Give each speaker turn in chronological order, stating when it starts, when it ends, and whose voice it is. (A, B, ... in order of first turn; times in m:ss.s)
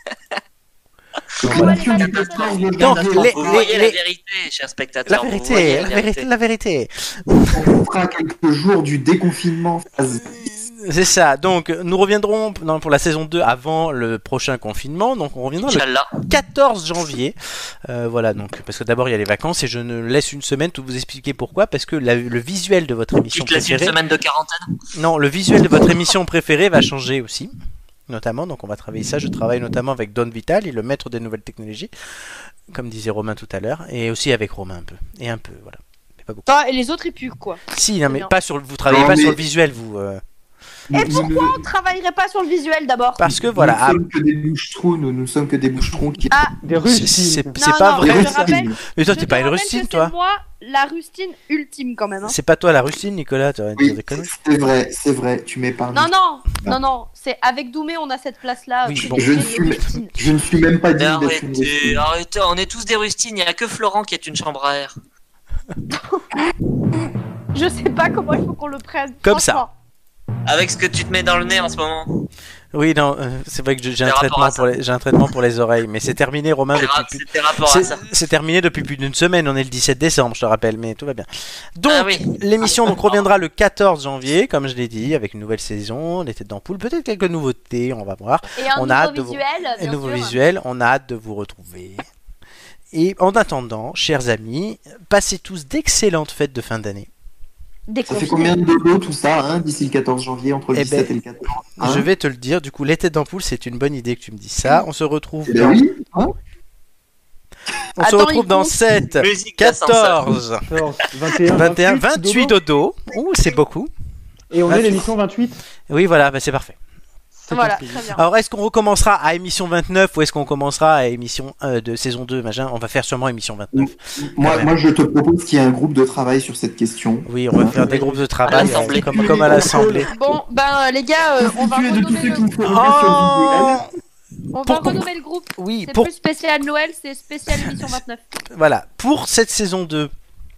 0:01.4-0:03.6 A
0:01.4-0:06.3 B
0:01.5-0:02.8 C
0:02.8-0:04.0 D
0:05.1-0:07.6 D
0:07.4-0:10.3 A
0:10.2-0:17.4 D
0:15.6-0:16.3 B
0:17.9-0:24.0 D
0:23.3-0:24.6 B
0:25.0-0:27.5 D
0:28.1-0:31.9 D
0:32.7-0:36.5 D
0:36.5-0:38.3 C
0:37.7-0:40.2 D
0:38.9-0:39.4 A
0:40.9-0:41.6 A
0:40.9-0:43.2 C
0:43.2-0:44.0 D
0:43.3-0:46.4 A
0:46.6-0:47.6 E
0:46.8-0:50.1 D
0:47.6-0:52.3 C
0:48.0-0:48.8 A
0:52.2-0:54.3 D
0:53.8-0:56.1 A
0:55.9-1:00.1 C
0:58.8-0:59.6 D
0:59.1-1:02.0 A
1:01.0-1:05.0 B
1:05.9-1:06.2 C
1:07.5-1:09.7 C
1:09.2-1:09.6 D
1:10.5-1:12.1 B
1:12.7-1:21.3 D
1:14.0-1:14.7 B
1:16.8-1:18.0 B
1:21.8-1:32.1 D
1:21.9-1:23.3 B
1:28.6-1:30.4 C
1:32.9-1:37.1 D
1:37.9-1:38.6 C
1:38.1-1:42.1 A
1:40.7-1:41.1 D
1:41.8-1:45.8 D
1:45.5-1:46.4 A
1:48.0-1:50.6 D
1:48.0-1:48.8 C
1:49.2-1:50.2 B
1:50.7-1:52.6 E
1:51.5-1:53.9 D
1:54.5-1:55.6 E
1:54.7-1:55.1 D
1:55.9-1:56.8 D
1:57.4-1:58.1 E
1:57.5-1:58.2 C
1:58.1-2:04.7 D
2:03.8-2:10.1 A
2:07.3-2:10.1 D
2:07.9-2:08.2 E
2:08.5-2:09.6 B
2:10.1-2:12.5 C
2:11.4-2:13.8 A
2:12.6-2:13.9 D
2:14.5-2:18.2 C
2:14.6-2:15.1 D
2:15.6-2:16.1 D
2:17.5-2:18.0 D
2:18.5-2:20.1 D